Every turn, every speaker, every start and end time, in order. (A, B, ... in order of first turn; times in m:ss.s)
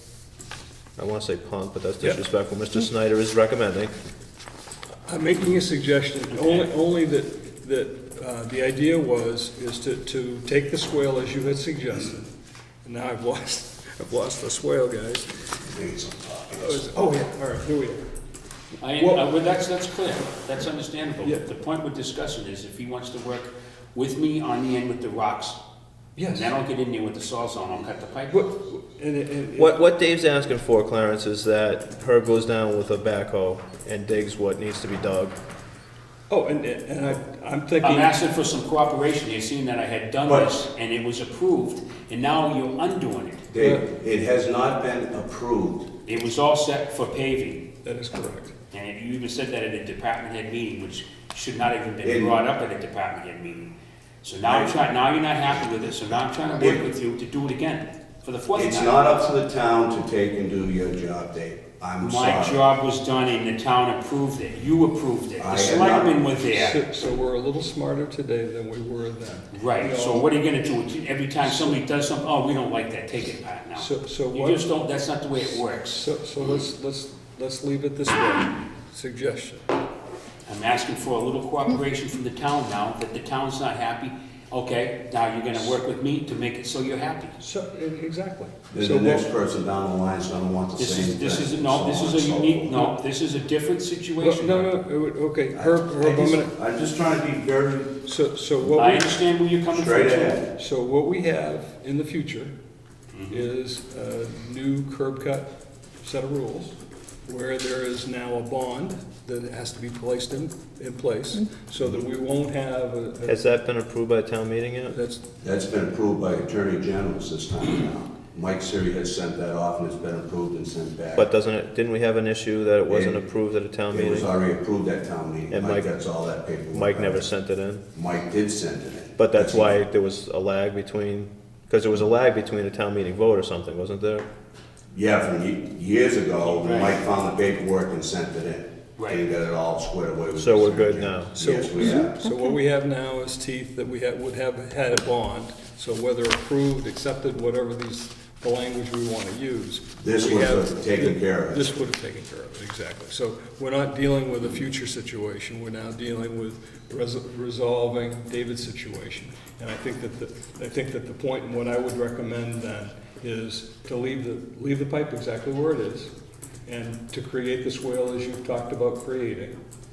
0:01.0-0:03.9 A
0:05.0-0:12.3 B
0:06.3-0:06.6 C
0:12.8-0:15.3 B
0:15.7-0:16.9 D
0:16.6-0:18.0 B
0:18.8-0:25.6 C
0:18.9-0:19.2 B
0:26.2-0:26.5 B
0:26.2-0:28.4 C
0:28.3-0:29.8 B
0:29.6-0:35.3 A
0:36.3-0:38.1 B
0:37.8-0:43.4 C
0:43.5-0:45.9 D
0:46.0-0:47.6 C
0:47.8-0:48.5 B
0:48.7-0:59.0 C
0:52.0-0:52.4 D
0:54.4-0:54.7 D
0:56.6-0:56.8 D
0:58.5-1:02.6 D
1:02.0-1:06.8 C
1:05.4-1:06.2 D
1:06.5-1:10.3 B
1:09.5-1:16.0 C
1:11.4-1:11.8 B
1:13.8-1:14.6 B
1:15.9-1:19.6 B
1:20.5-1:27.4 C
1:27.4-1:29.2 B
1:28.7-1:32.9 D
1:30.8-1:34.7 C
1:34.2-1:36.5 B
1:35.5-1:38.0 D
1:38.0-1:39.2 B
1:38.6-1:40.4 C
1:39.7-1:40.4 D
1:40.5-1:42.5 B
1:43.2-1:43.4 C
1:43.3-1:45.5 B
1:46.0-1:53.5 B
1:53.2-1:55.0 A
1:54.9-1:55.2 B
1:55.4-2:01.3 D
2:01.2-2:04.3 A
2:02.9-2:03.2 D
2:03.9-2:07.2 D
2:05.5-2:05.9 A
2:06.7-2:07.8 A
2:07.9-2:09.8 D
2:09.2-2:14.2 A
2:14.9-2:22.3 D
2:16.5-2:17.0 C
2:19.0-2:19.2 C
2:20.4-2:21.4 A
2:21.4-2:46.1 B
2:30.0-2:31.7 D
2:46.6-2:49.6 B